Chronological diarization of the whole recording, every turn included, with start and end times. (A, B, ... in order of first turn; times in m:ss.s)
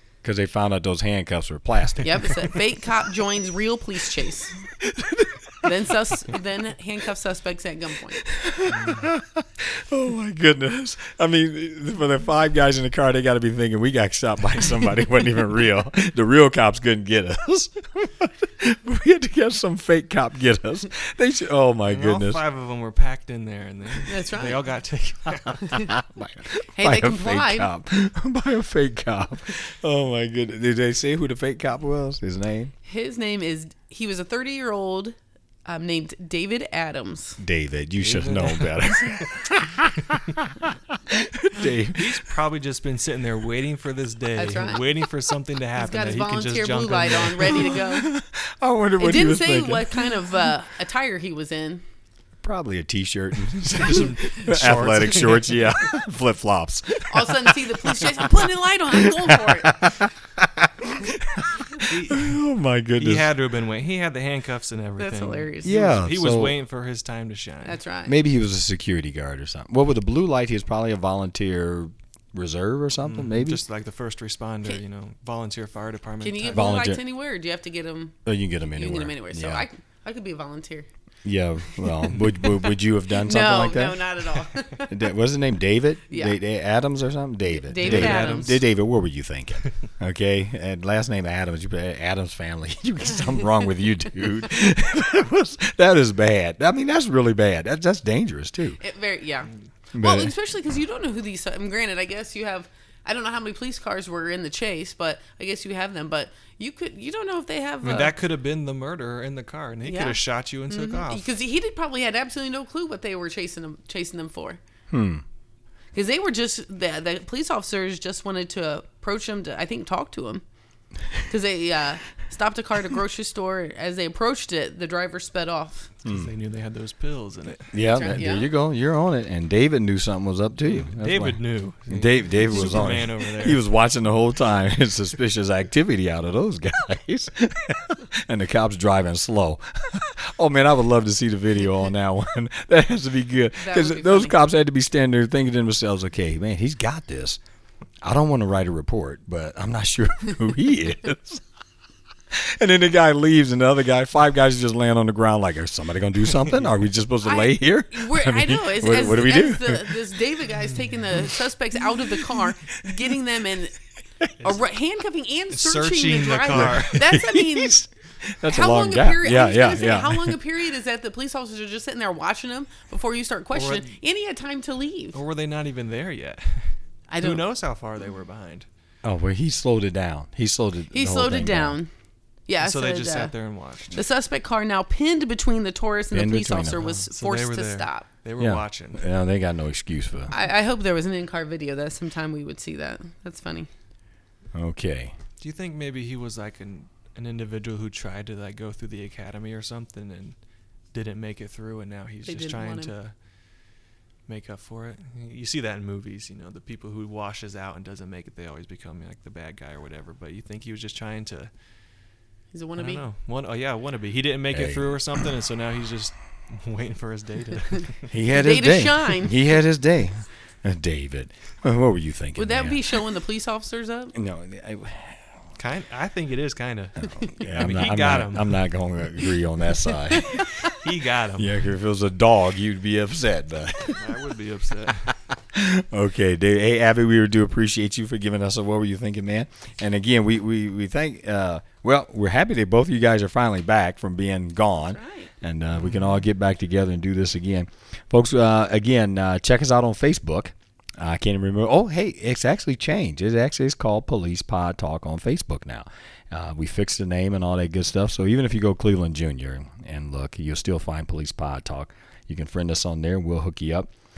0:00.2-0:02.6 A
0:02.0-0:04.6 B
0:04.7-0:05.9 A
0:05.6-0:08.2 B
0:08.2-0:22.4 A
0:21.9-0:25.8 C
0:24.1-0:24.6 B
0:25.6-0:25.9 B
0:25.7-0:32.7 A
0:26.8-0:27.7 B
0:32.8-0:37.4 B
0:37.4-0:42.3 A
0:38.0-0:39.3 C
0:41.6-0:47.7 C
0:44.4-0:44.8 B
0:45.8-0:48.1 B
0:47.7-0:50.1 A
0:49.0-0:51.8 B
0:52.4-1:03.3 A
0:53.7-0:55.5 C
0:57.1-1:00.0 B
1:01.7-1:02.4 C
1:03.0-1:07.8 C
1:05.0-1:05.8 B
1:05.6-1:06.6 A
1:07.6-1:08.1 B
1:08.1-1:13.6 A
1:13.0-1:16.8 C
1:16.2-1:18.2 B
1:16.5-1:17.0 A
1:18.3-1:19.6 A
1:18.8-1:20.9 B
1:21.2-1:24.1 A
1:23.1-1:25.0 B
1:24.9-1:38.8 A
1:26.1-1:26.4 B
1:27.5-1:28.6 B
1:27.8-1:28.6 C
1:38.8-1:48.1 B
1:39.9-1:40.3 A
1:47.8-1:51.4 C
1:49.8-1:54.6 B
1:54.9-1:55.2 A
1:55.9-2:00.4 B
2:01.3-2:05.9 B
2:06.0-2:06.3 A
2:06.0-2:07.7 C
2:07.7-2:27.4 A
2:07.9-2:08.5 B
2:10.6-2:13.6 C
2:23.6-2:24.4 B
2:28.0-2:31.4 A
2:32.3-2:40.1 A
2:37.2-2:43.7 B
2:41.9-2:43.1 A
2:44.4-2:44.7 C
2:44.4-2:47.8 B
2:45.5-2:47.1 C
2:46.5-2:50.4 A
2:48.4-2:55.2 B
2:53.5-2:53.9 C
2:55.1-2:58.7 C
2:57.1-2:57.4 B
2:59.0-3:01.8 A
3:00.9-3:01.9 B
3:02.5-3:03.3 B
3:02.6-3:04.0 C
3:03.9-3:08.1 B
3:06.1-3:06.8 A
3:06.8-3:09.1 C
3:08.4-3:10.3 A
3:10.3-3:13.7 B
3:14.5-3:15.1 A
3:15.4-3:20.4 C
3:20.9-3:23.1 C
3:22.3-3:22.9 B
3:24.3-3:31.5 C
3:32.5-3:33.0 B
3:32.8-3:38.1 C
3:34.5-3:35.3 A
3:38.1-3:43.0 A
3:38.3-3:39.4 B
3:42.4-3:44.1 B
3:44.1-3:45.3 A
3:45.6-3:48.6 C
3:47.0-3:50.6 A
3:50.2-3:51.6 C
3:51.4-3:54.1 A
3:53.9-3:55.1 C
3:55.1-4:23.9 A
4:04.8-4:05.3 B